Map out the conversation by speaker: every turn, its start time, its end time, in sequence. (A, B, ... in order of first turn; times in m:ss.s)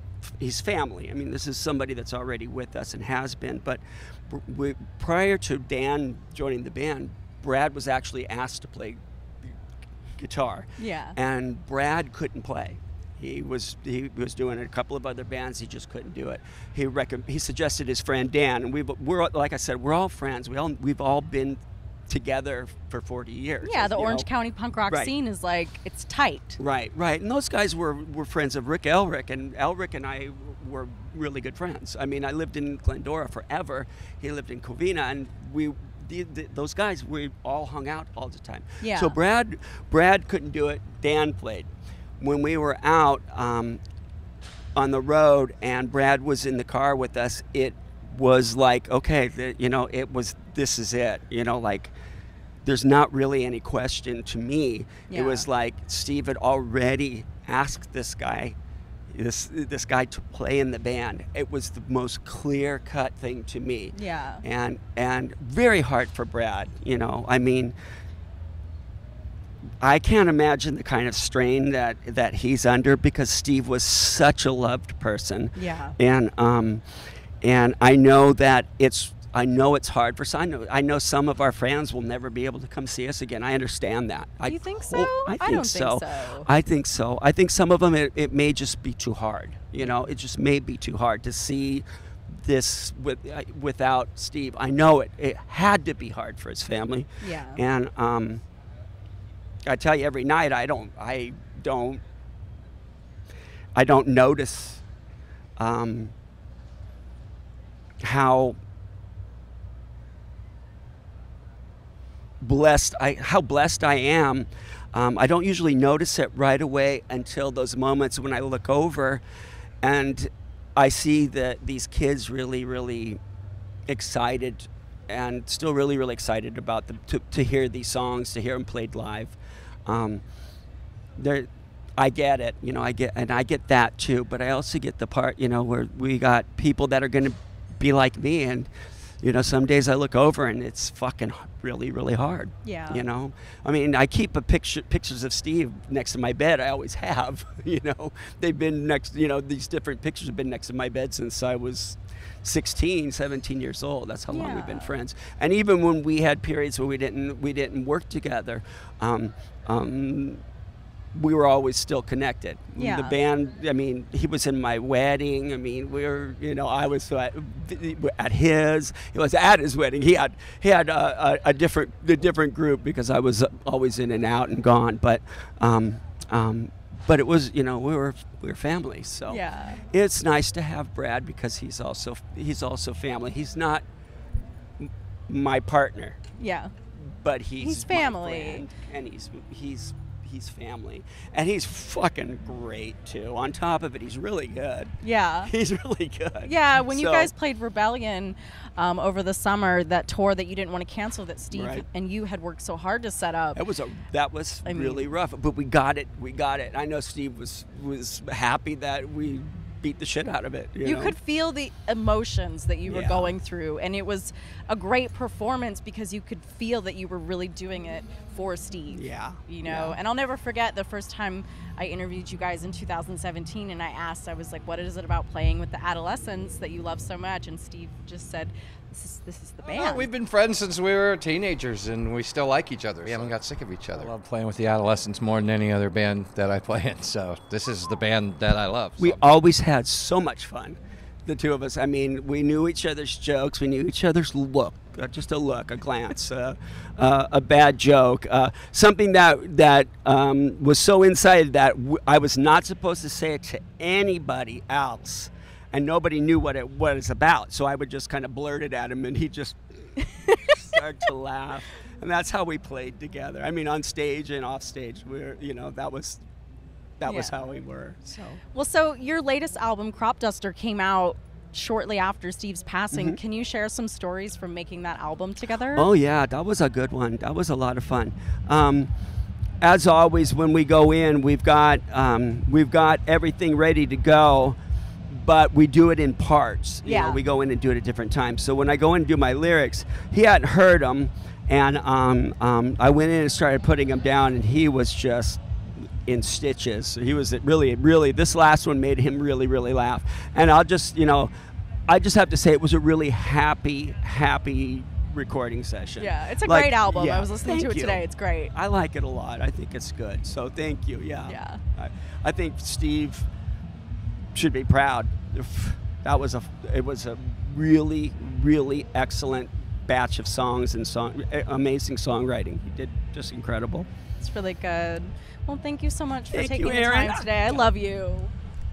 0:00.2-0:09.5 A
0:10.2-0:24.3 A
0:10.8-0:11.2 B
0:23.6-0:26.6 B
0:26.6-0:41.7 A
0:38.8-0:39.2 B
0:42.2-0:43.8 A
0:44.8-0:51.9 A
0:52.6-0:58.6 A
0:55.1-0:55.5 B
0:59.1-1:07.8 A
1:03.9-1:04.4 B
1:09.8-1:16.8 A
1:15.6-1:16.0 B
1:17.4-1:38.4 A
1:24.4-1:26.5 B
1:37.2-1:37.6 B
1:39.7-1:42.0 A
1:43.8-1:44.8 A
1:45.6-1:46.1 A
1:48.0-1:48.6 A
1:52.4-1:59.2 A
1:59.8-2:03.2 A
2:03.9-2:10.2 A
2:11.2-2:18.7 A
2:19.2-2:40.4 A
2:22.6-2:23.0 B
2:34.3-2:34.9 B
2:41.1-3:03.8 A
2:42.8-2:43.2 B
2:59.3-2:59.8 B
3:04.8-3:06.2 A
3:06.4-3:06.7 B
3:07.0-3:14.9 A
3:07.6-3:08.6 B
3:15.0-3:15.5 B
3:15.4-3:17.3 A
3:16.4-3:23.6 B
3:21.5-3:21.8 A
3:23.6-3:31.2 A
3:24.6-3:25.1 B
3:30.8-3:50.1 B
3:32.9-3:33.4 A
3:38.9-3:40.0 A
3:49.6-3:59.2 C
3:59.0-4:19.6 A
4:20.0-4:20.6 B
4:20.5-4:26.2 A
4:27.0-4:28.4 A
4:27.0-4:27.4 B
4:28.5-4:35.9 B
4:32.9-4:33.2 A
4:35.7-4:38.9 A
4:39.6-4:44.6 A
4:45.1-4:55.4 A
4:46.8-4:47.2 B
4:56.1-5:01.3 A
5:01.9-5:13.3 A
5:06.0-5:08.5 B
5:11.3-5:11.6 B
5:14.4-5:23.9 A
5:24.2-5:28.3 B
5:26.3-5:27.7 A